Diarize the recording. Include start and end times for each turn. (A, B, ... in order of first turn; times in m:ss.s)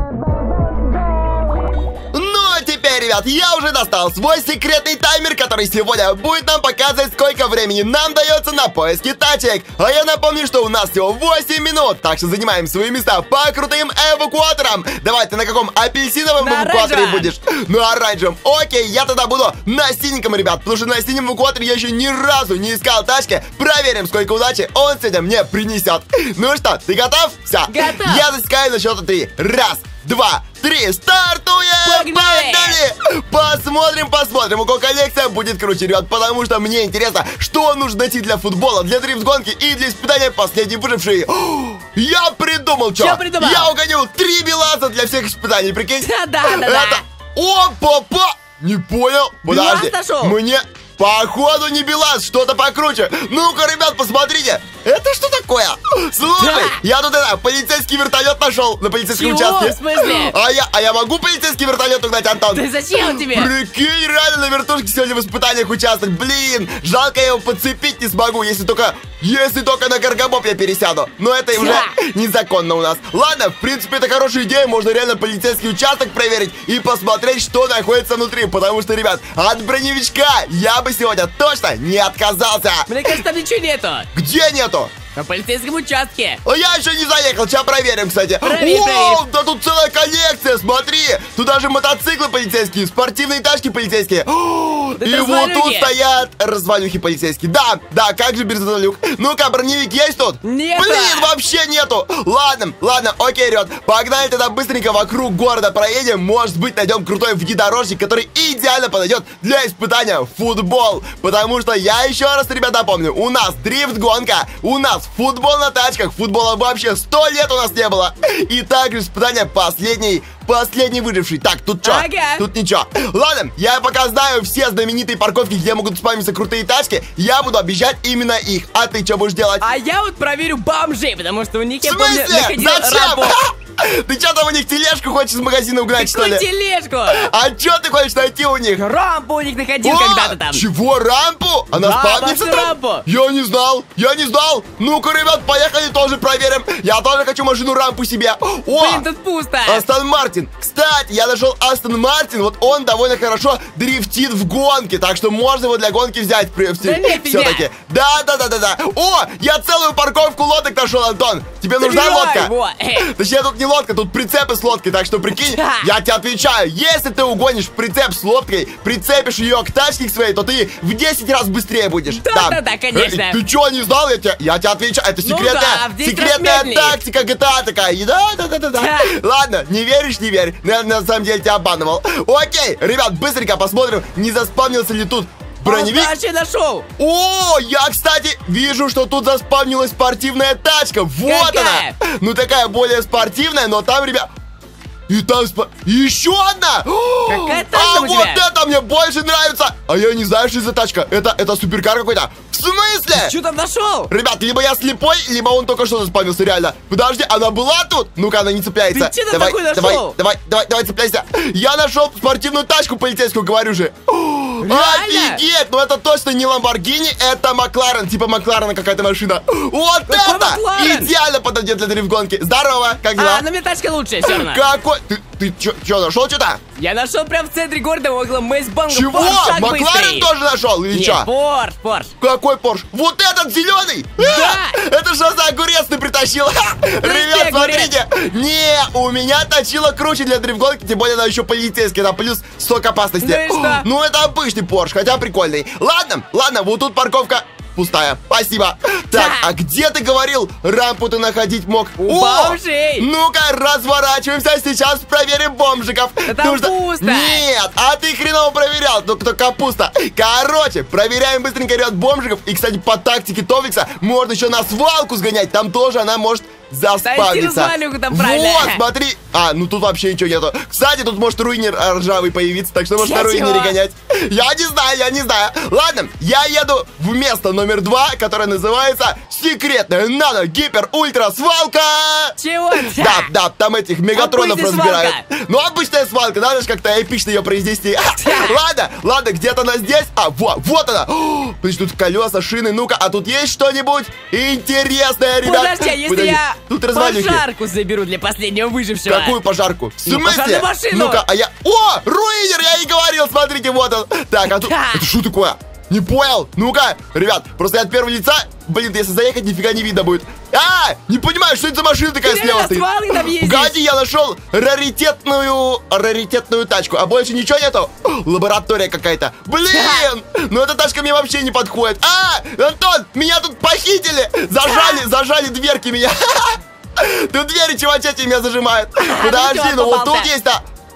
0:02.1-1:23.2 A
0:16.4-0:17.3 B
0:27.7-0:28.3 B
0:31.8-0:32.8 B
0:43.0-0:43.7 B
0:46.0-0:47.0 B
0:49.5-0:50.4 B
0:56.4-0:56.8 B
0:59.1-1:00.4 B
1:02.5-1:03.5 B
1:11.5-1:11.9 B
1:22.9-1:24.1 B
1:24.1-1:25.0 A
1:25.1-1:26.4 B
1:26.4-2:09.7 A
1:28.4-1:29.2 B
1:35.0-1:35.9 B
1:40.4-1:41.3 B
2:01.8-2:02.5 B
2:09.6-2:13.4 B
2:11.8-2:16.4 A
2:16.0-2:17.3 B
2:17.1-2:18.8 A
2:18.8-2:20.6 B
2:19.8-2:29.0 A
2:21.7-2:23.0 B
2:28.8-2:29.8 B
2:29.7-3:06.1 A
2:36.8-2:37.6 B
2:41.8-2:43.1 B
2:45.4-2:45.9 B
2:52.1-2:53.4 B
2:55.2-2:57.0 B
2:58.7-2:59.1 B
3:05.6-3:06.9 B
3:07.0-3:14.3 A
3:11.2-3:12.0 B
3:15.1-3:23.3 A
3:17.3-3:18.4 B
3:23.1-3:24.1 B
3:24.1-3:43.4 A
3:28.9-3:30.2 B
3:34.6-3:35.4 B
3:40.1-3:41.1 B
3:43.2-3:44.6 B
3:44.2-3:46.6 A
3:46.8-3:50.3 B
3:48.9-3:51.3 A
3:50.9-3:52.1 B
3:52.2-4:57.4 A
3:54.2-3:54.8 B
3:57.0-3:57.9 B
4:03.2-4:03.9 B
4:09.1-4:09.5 B
4:12.0-4:13.1 B
4:16.3-4:17.4 B
4:27.0-4:28.8 B
4:33.0-4:33.8 B
4:42.4-4:43.3 B
4:44.1-4:45.2 B
4:48.2-4:48.6 B
4:55.4-4:59.4 B
4:59.1-5:30.6 A
5:00.1-5:01.2 B
5:04.4-5:05.0 B
5:12.2-5:13.8 B
5:19.7-5:20.1 B
5:24.6-5:25.0 B
5:29.0-5:30.3 B